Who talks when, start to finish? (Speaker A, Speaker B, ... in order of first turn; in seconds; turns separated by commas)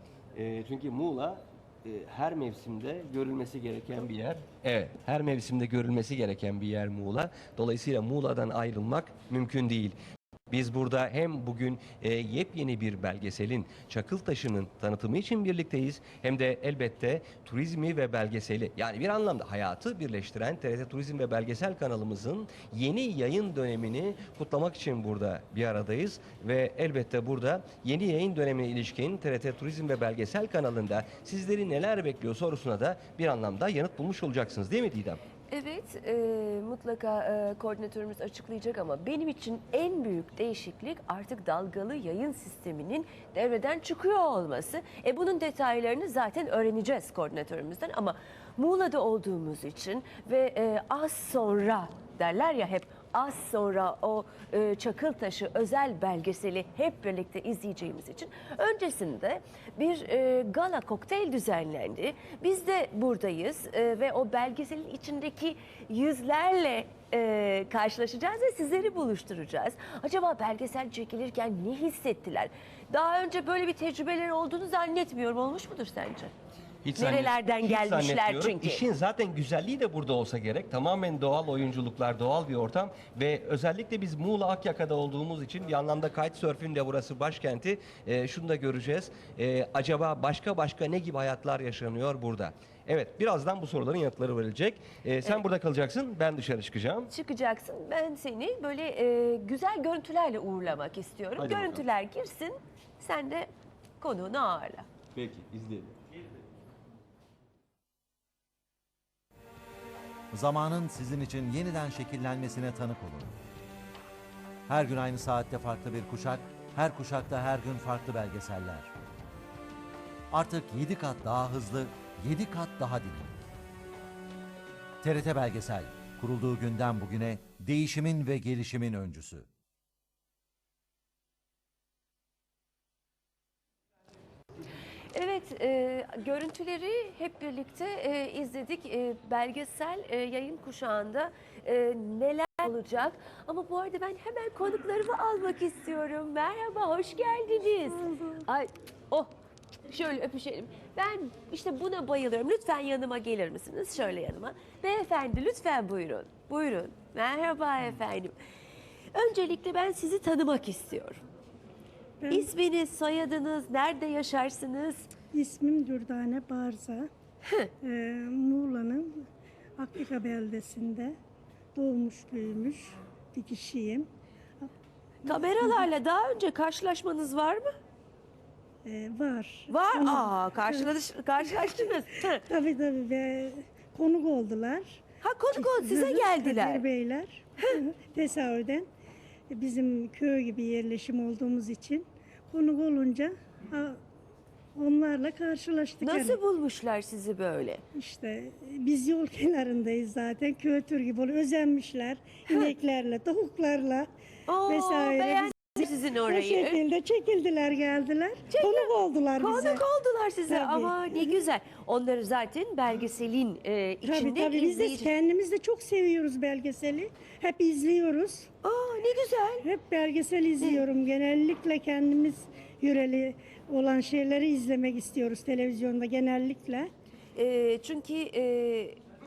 Speaker A: 0.3-9.9, Speaker A: 10.5-35.2, Speaker B: 35.5-76.3, Speaker A: 76.8-97.1, Speaker B: 77.0-78.8, Speaker B: 97.1-103.5, Speaker A: 101.4-101.8, Speaker B: 104.0-104.9, Speaker A: 105.1-105.9, Speaker C: 110.3-113.4, Speaker C: 114.7-118.9, Speaker C: 120.3-123.4, Speaker C: 125.0-129.5, Speaker B: 135.1-149.3, Speaker D: 147.9-148.4, Speaker B: 149.9-158.3, Speaker B: 159.1-161.2, Speaker D: 162.2-162.5, Speaker B: 162.3-165.1, Speaker D: 165.3-167.1, Speaker B: 167.4-167.7, Speaker D: 167.8-169.3, Speaker D: 169.8-171.2, Speaker D: 171.7-174.1, Speaker D: 175.2-175.9, Speaker B: 175.2-177.7, Speaker D: 178.8-185.0, Speaker B: 179.7-182.4, Speaker B: 185.2-186.8, Speaker D: 185.5-188.9, Speaker D: 189.5-194.0, Speaker D: 194.7-196.4, Speaker B: 196.0-197.8, Speaker D: 197.9-204.1, Speaker B: 204.5-206.8, Speaker D: 204.7-209.8, Speaker B: 208.5-215.1, Speaker D: 210.5-211.3, Speaker D: 214.0-218.5, Speaker B: 218.6-219.6, Speaker D: 219.6-226.9, Speaker B: 227.3-229.0